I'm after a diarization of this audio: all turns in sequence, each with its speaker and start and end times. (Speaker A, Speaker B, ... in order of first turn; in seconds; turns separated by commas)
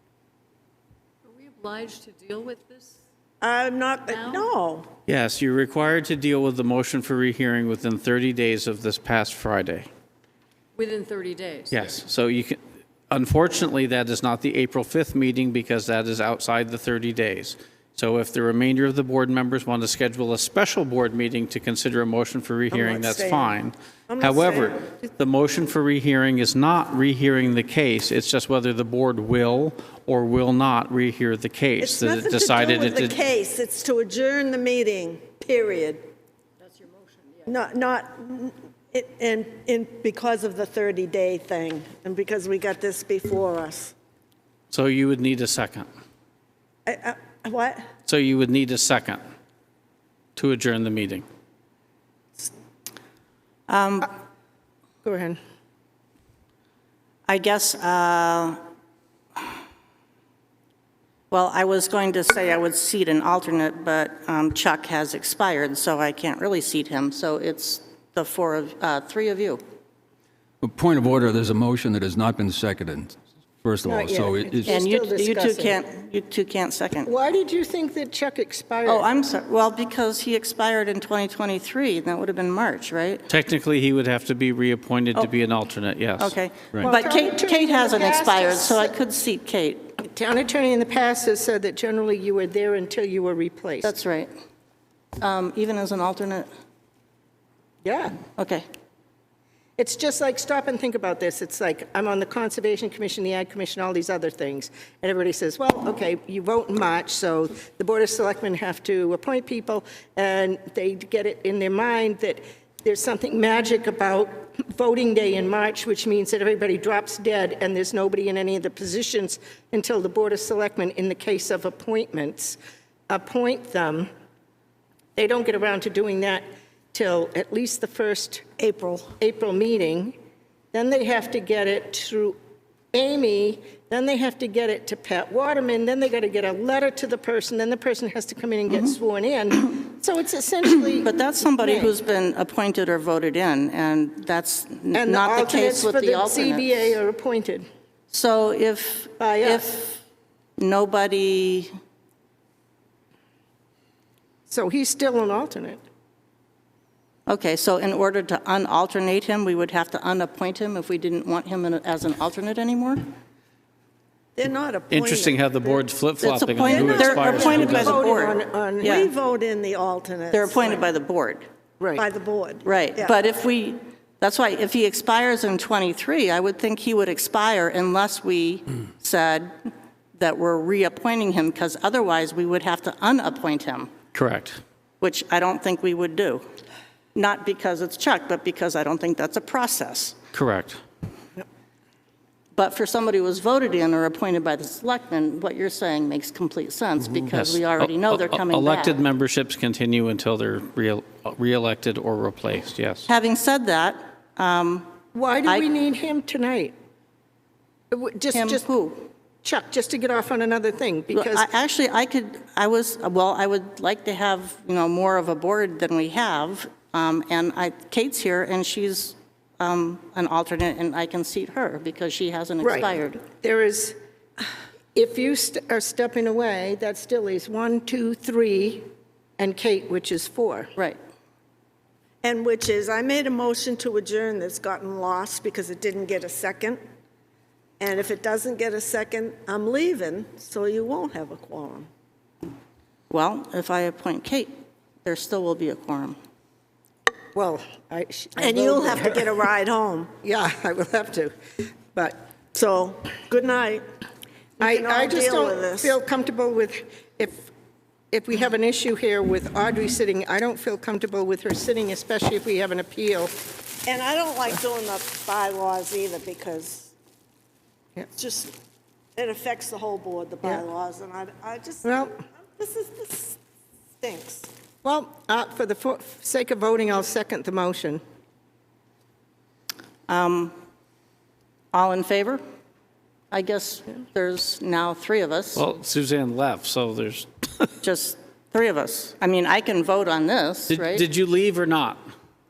Speaker A: 1.3-3.0, Speaker B: 3.4-4.9, Speaker A: 4.1-4.5, Speaker C: 5.1-9.9, Speaker A: 10.8-11.9, Speaker C: 11.7-12.6, Speaker C: 13.1-33.2, Speaker B: 22.7-23.6, Speaker B: 24.1-24.8, Speaker B: 31.8-36.1, Speaker A: 36.7-37.5, Speaker B: 37.5-44.0, Speaker C: 44.7-45.9, Speaker B: 46.9-47.9, Speaker C: 48.1-49.2, Speaker C: 50.4-51.2, Speaker D: 53.7-54.1, Speaker E: 55.0-55.4, Speaker D: 57.3-58.6, Speaker D: 61.3-69.6, Speaker F: 70.6-74.8, Speaker E: 73.8-75.8, Speaker D: 74.7-77.1, Speaker E: 77.0-79.1, Speaker D: 78.8-83.2, Speaker C: 83.3-86.3, Speaker D: 86.2-89.9, Speaker E: 86.8-89.0, Speaker E: 90.0-93.9, Speaker D: 93.8-94.3, Speaker D: 95.2-96.5, Speaker E: 97.8-98.2, Speaker D: 98.4-98.6, Speaker E: 99.8-122.6, Speaker E: 123.1-124.1, Speaker E: 125.2-128.4, Speaker B: 128.6-129.1, Speaker E: 129.2-130.2, Speaker E: 130.7-132.4, Speaker E: 132.9-141.9, Speaker D: 141.0-146.9, Speaker E: 144.9-147.7, Speaker D: 148.1-150.0, Speaker E: 149.2-149.7, Speaker D: 150.6-151.7, Speaker E: 154.5-155.8, Speaker D: 157.3-163.1, Speaker B: 164.4-165.9, Speaker C: 164.9-168.0, Speaker D: 166.2-169.1, Speaker B: 166.6-168.0, Speaker E: 167.4-169.0, Speaker B: 168.8-170.9, Speaker D: 170.3-171.4, Speaker B: 172.0-173.1, Speaker D: 172.6-179.5, Speaker D: 180.2-183.9, Speaker C: 184.1-184.6, Speaker D: 185.0-186.4, Speaker D: 187.2-190.2, Speaker C: 190.3-190.8, Speaker D: 192.6-199.0, Speaker C: 197.1-203.1, Speaker D: 203.1-204.9, Speaker E: 205.1-206.7, Speaker E: 207.9-208.7, Speaker D: 208.3-209.1, Speaker E: 209.4-211.5, Speaker D: 211.1-223.2, Speaker E: 222.6-224.0, Speaker E: 224.9-228.8, Speaker E: 229.4-230.7, Speaker B: 232.2-236.8, Speaker B: 237.8-241.9, Speaker D: 243.1-244.5, Speaker D: 245.1-246.2, Speaker E: 247.3-249.2, Speaker B: 248.4-250.1, Speaker E: 250.2-251.3, Speaker E: 251.9-252.2, Speaker B: 252.5-253.9, Speaker B: 254.6-255.9, Speaker E: 254.6-257.5, Speaker E: 258.1-263.3, Speaker B: 263.9-266.9, Speaker B: 268.1-268.6, Speaker B: 269.2-273.4, Speaker E: 271.8-272.1, Speaker B: 274.0-274.5, Speaker E: 274.8-278.0, Speaker D: 280.1-280.6, Speaker D: 281.7-282.4, Speaker D: 283.3-285.6, Speaker C: 285.6-287.7, Speaker D: 287.8-291.0, Speaker C: 290.7-292.0